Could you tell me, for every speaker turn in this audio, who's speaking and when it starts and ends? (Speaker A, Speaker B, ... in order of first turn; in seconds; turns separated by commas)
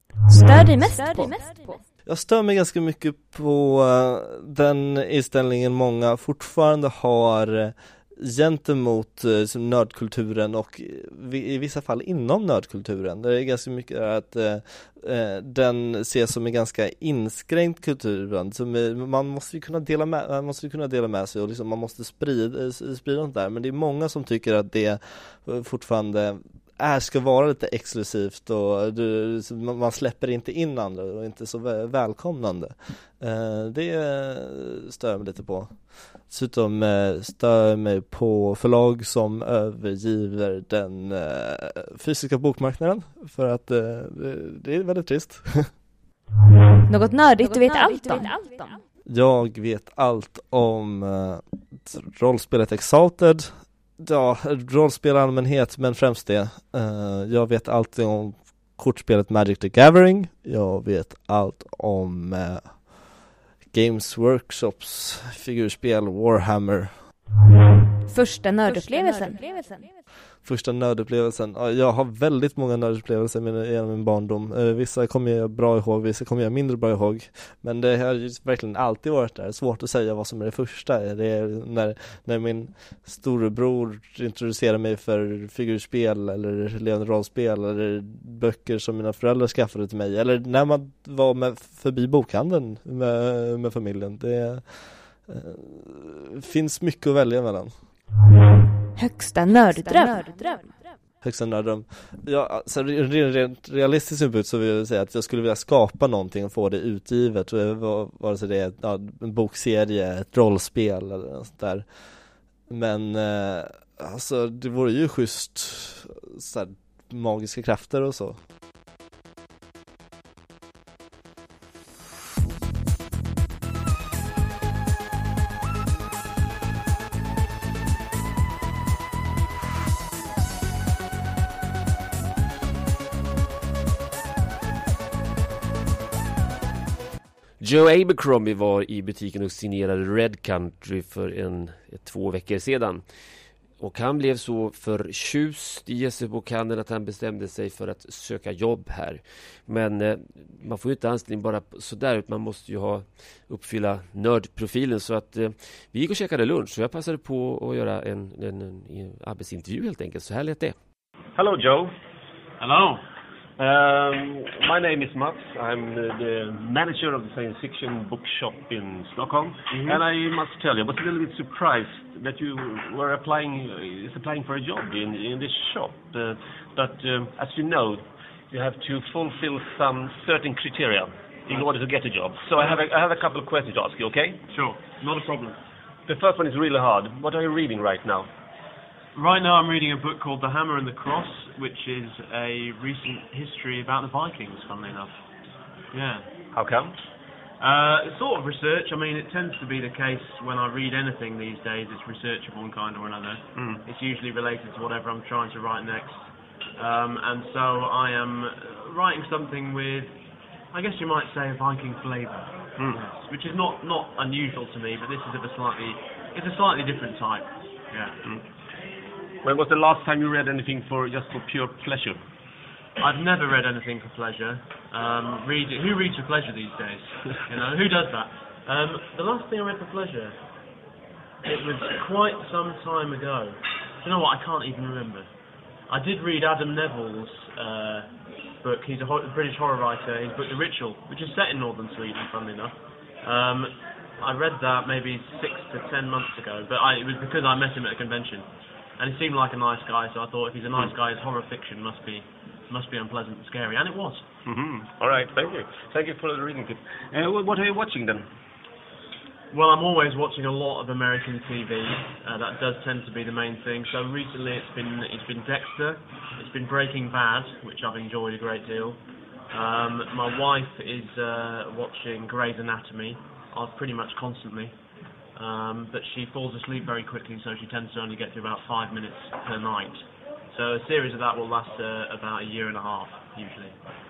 Speaker A: 0.3-1.8, Speaker B: 2.0-45.7, Speaker A: 46.9-48.8, Speaker B: 49.0-67.1, Speaker A: 68.1-69.9, Speaker B: 70.4-97.8, Speaker A: 99.0-100.6, Speaker B: 101.2-111.9, Speaker B: 112.7-118.4, Speaker C: 137.6-143.0, Speaker C: 143.8-160.7, Speaker D: 161.3-161.9, Speaker E: 162.6-163.0, Speaker D: 163.6-184.4, Speaker E: 169.7-170.0, Speaker E: 184.5-185.6, Speaker D: 186.1-188.3, Speaker E: 189.2-195.1, Speaker E: 195.9-196.3, Speaker D: 196.5-196.9, Speaker E: 197.6-206.2, Speaker D: 203.6-203.8, Speaker E: 206.8-210.1, Speaker E: 210.7-218.2, Speaker D: 219.4-222.2, Speaker E: 223.0-230.3, Speaker E: 231.4-235.3, Speaker E: 235.9-238.1, Speaker E: 238.6-248.5, Speaker E: 249.0-254.2, Speaker D: 254.4-258.2, Speaker E: 259.5-269.0, Speaker E: 269.5-274.7, Speaker E: 275.4-283.8